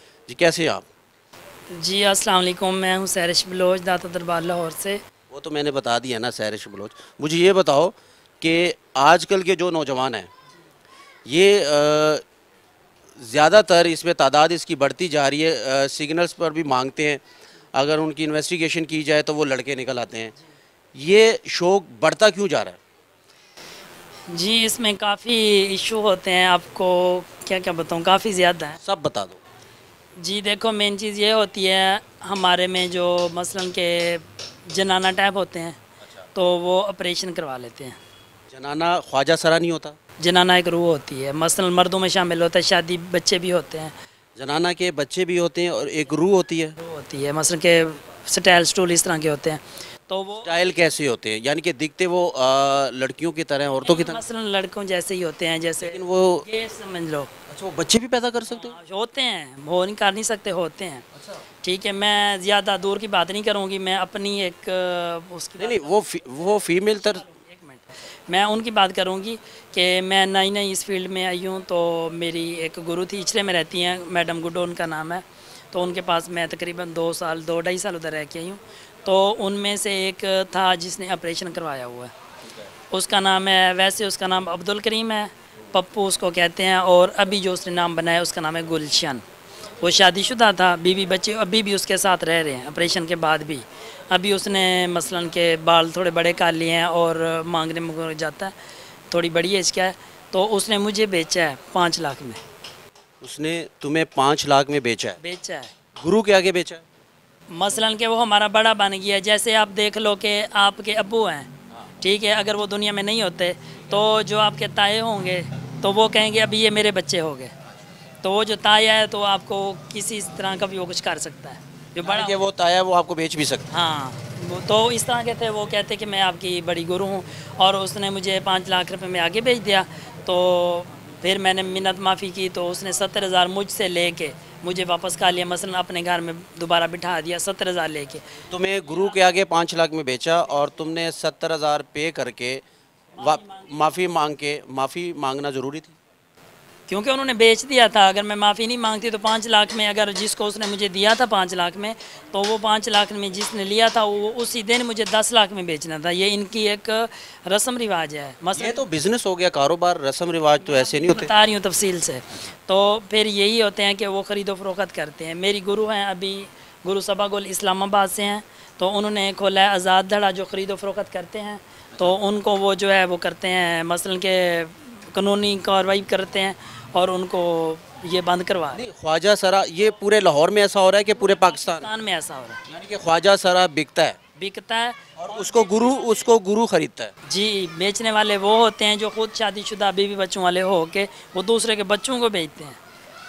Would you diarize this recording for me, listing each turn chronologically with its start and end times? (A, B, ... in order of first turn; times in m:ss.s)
0:00.3-0:00.8 A
0:01.7-0:05.0 B
0:05.3-0:10.3 A
0:11.3-0:12.2 A
0:13.2-0:17.2 A
0:17.7-0:20.3 A
0:20.9-0:22.8 A
0:24.3-0:28.8 B
0:28.8-0:29.4 A
0:30.2-0:35.8 B
0:36.3-0:38.0 B
0:38.5-0:40.0 A
0:40.2-0:43.9 B
0:44.4-0:46.8 A
0:46.8-0:50.5 B
0:50.4-0:54.2 A
0:53.8-0:57.3 B
0:55.8-0:56.4 A
0:57.5-0:58.8 A
0:58.5-1:01.0 B
1:01.1-1:01.4 A
1:01.6-1:05.9 B
1:05.6-1:07.2 A
1:07.1-1:22.1 B
1:22.9-1:29.2 B
1:29.8-1:38.5 B
1:39.1-1:42.4 B
1:43.2-1:45.2 A
1:45.2-1:45.7 B
1:46.0-1:46.8 A
1:47.5-1:51.5 B
1:52.0-1:57.5 B
1:58.2-2:02.4 B
2:02.0-2:03.7 A
2:03.7-2:19.2 B
2:18.5-2:22.6 A
2:23.2-2:23.8 B
2:23.2-2:26.0 A
2:26.9-2:38.8 B
2:38.5-2:41.3 A
2:40.6-2:58.8 B
2:58.7-3:01.9 A
3:01.1-3:02.6 B
3:02.6-3:04.2 A
3:04.4-3:06.3 B
3:05.2-3:07.1 A
3:07.2-3:12.8 B